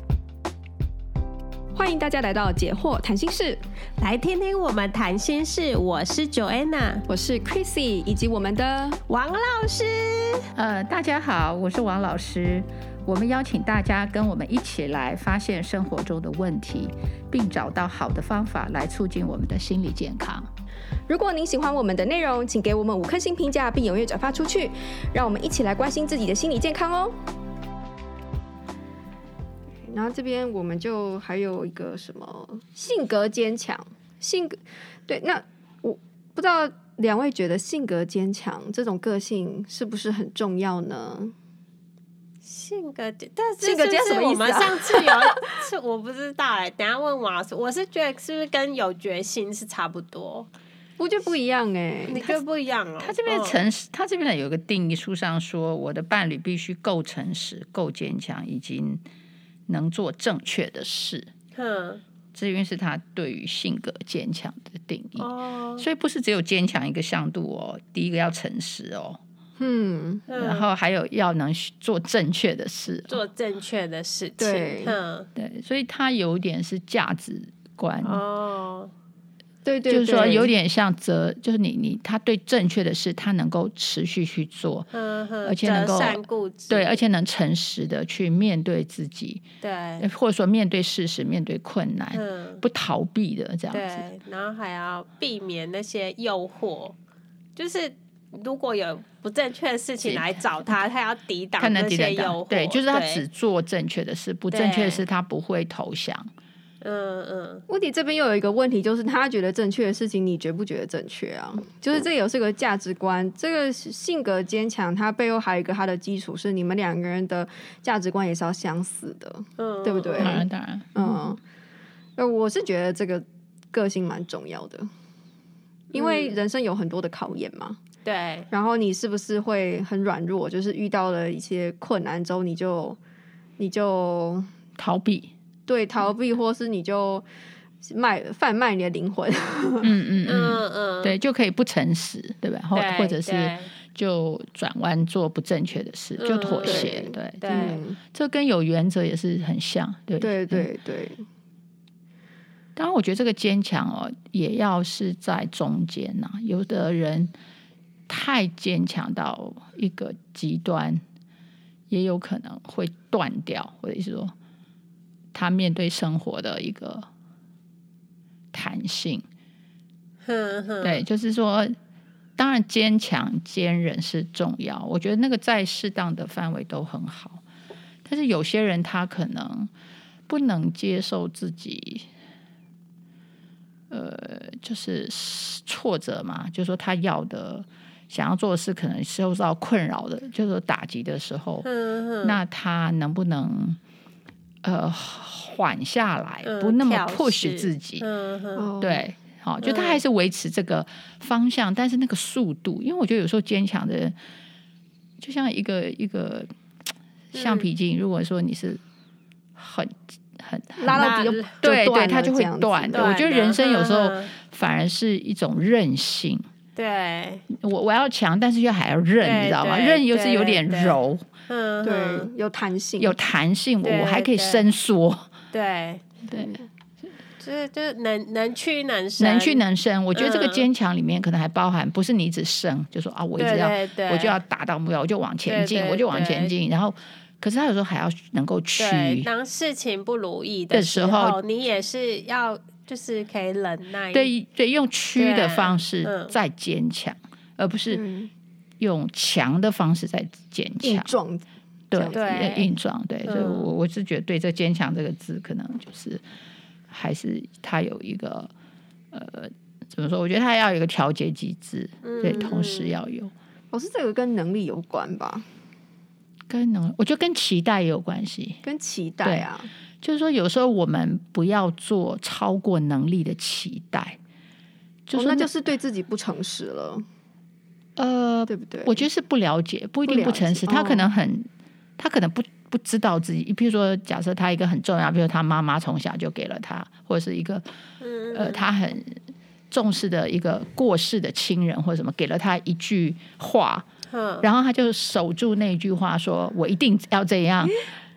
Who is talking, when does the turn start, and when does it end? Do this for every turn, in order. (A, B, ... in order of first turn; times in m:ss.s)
0:01.7-0:03.6 A
0:04.0-0:07.0 B
0:07.1-0:09.0 A
0:09.1-0:10.5 B
0:10.6-0:20.5 C
0:21.1-0:27.1 A
0:29.8-0:41.3 A
0:42.4-0:50.5 B
0:43.6-0:45.5 A
0:51.0-0:52.4 A
0:52.1-0:53.6 B
0:53.0-0:59.0 C
0:59.7-1:01.3 C
1:01.5-1:02.0 B
1:02.3-1:09.2 C
1:05.2-1:05.8 B
1:09.6-1:10.2 A
1:10.3-1:10.7 B
1:10.3-1:13.2 C
1:13.1-1:15.3 B
1:14.4-1:14.9 A
1:15.4-1:18.2 C
1:18.0-1:18.9 B
1:19.6-1:20.5 A
1:19.9-1:24.9 C
1:24.9-1:27.0 B
1:25.4-1:29.4 C
1:29.6-1:30.1 B
1:30.0-1:34.0 C
1:32.1-1:32.6 B
1:33.7-1:37.0 B
1:37.6-1:43.2 B
1:40.0-1:40.8 C
1:41.6-1:46.3 C
1:44.5-1:45.0 B
1:46.8-1:47.6 B
1:47.7-2:00.4 A
1:59.6-2:00.4 B
2:00.2-2:01.2 C
2:00.9-2:01.4 A
2:02.2-2:04.9 A
2:05.9-2:07.8 A
2:05.9-2:06.4 B
2:08.0-2:08.5 B
2:08.5-2:13.0 A
2:13.6-2:14.5 A
2:14.8-2:15.3 C
2:15.7-2:17.2 A
2:17.8-2:19.9 A
2:19.8-2:30.7 C
2:20.2-2:21.1 B
2:22.7-2:23.7 B
2:26.2-2:27.8 B
2:26.6-2:28.0 A
2:30.2-2:31.2 A
2:32.8-2:37.3 C
2:38.1-2:41.0 C
2:41.9-2:44.3 C
2:45.3-2:47.1 C
2:48.5-2:49.2 C
2:50.2-2:51.0 B
2:50.8-2:51.8 C
2:52.4-2:57.4 C
2:58.0-2:59.7 C
3:00.3-3:02.1 C
3:03.9-3:11.6 C
3:11.6-3:12.4 B
3:12.2-3:13.8 C
3:14.6-3:18.0 C
3:16.4-3:18.7 B
3:18.6-3:19.0 A
3:18.8-3:24.1 C
3:19.6-3:20.0 B
3:25.2-3:26.5 C
3:27.3-3:27.7 B
3:27.3-3:28.8 C
3:29.6-3:36.4 C
3:30.8-3:33.0 A
3:30.9-3:31.5 B
3:32.9-3:34.3 B
3:36.8-3:37.4 B
3:37.5-3:41.2 C
3:39.2-3:41.0 B
3:41.5-3:42.3 B
3:41.8-3:43.1 A
3:43.0-3:45.3 C
3:43.8-3:44.6 B
3:45.5-3:46.1 B
3:46.3-3:46.7 A
3:47.4-3:49.6 B
3:49.2-3:59.3 C
3:50.1-3:50.6 B
3:53.4-3:54.4 B
3:55.4-3:56.5 B
3:58.8-4:04.3 B
4:00.7-4:01.4 C
4:04.1-4:08.0 C
4:05.2-4:06.3 B
4:07.9-4:08.3 A
4:08.8-4:11.1 C
4:10.8-4:12.4 A
4:11.9-4:16.2 C
4:12.1-4:12.7 B
4:13.2-4:13.7 B
4:16.9-4:18.5 C
4:19.1-4:23.3 C
4:22.0-4:22.9 B
4:23.7-4:25.4 A
4:26.5-4:28.6 C
4:28.6-4:29.7 A
4:30.0-4:34.2 C
4:35.1-4:35.5 C
4:35.1-4:37.0 A
4:38.0-4:47.6 C
4:38.5-4:39.0 A
4:40.0-4:41.1 A
4:48.0-4:48.6 B
4:48.3-4:49.2 C
4:49.7-4:53.9 C
4:54.1-4:54.4 B
4:54.4-4:57.8 C